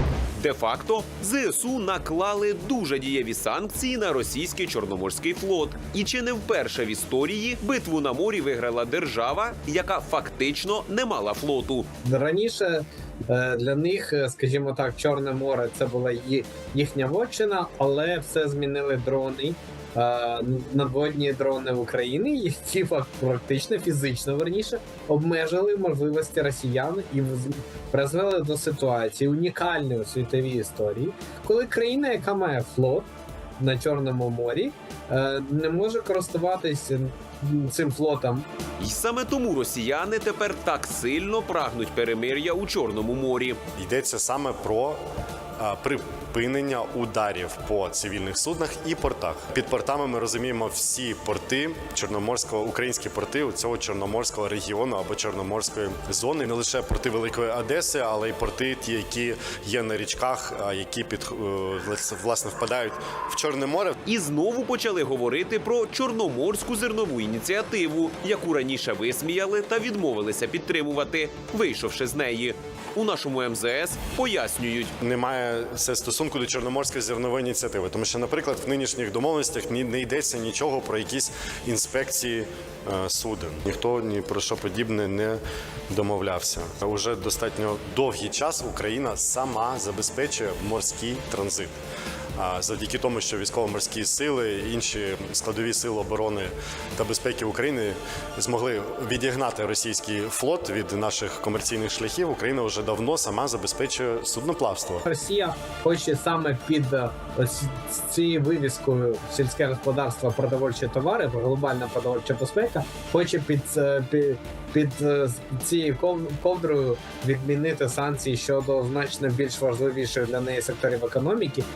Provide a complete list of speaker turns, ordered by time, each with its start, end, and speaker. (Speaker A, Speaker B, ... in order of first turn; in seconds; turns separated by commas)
Speaker A: 0.4-11.9, Speaker B: 12.0-38.5, Speaker A: 38.8-43.6, Speaker C: 43.8-45.0, Speaker C: 45.6-64.0, Speaker A: 64.0-74.9, Speaker C: 75.0-91.8, Speaker C: 92.4-105.0, Speaker B: 105.1-121.7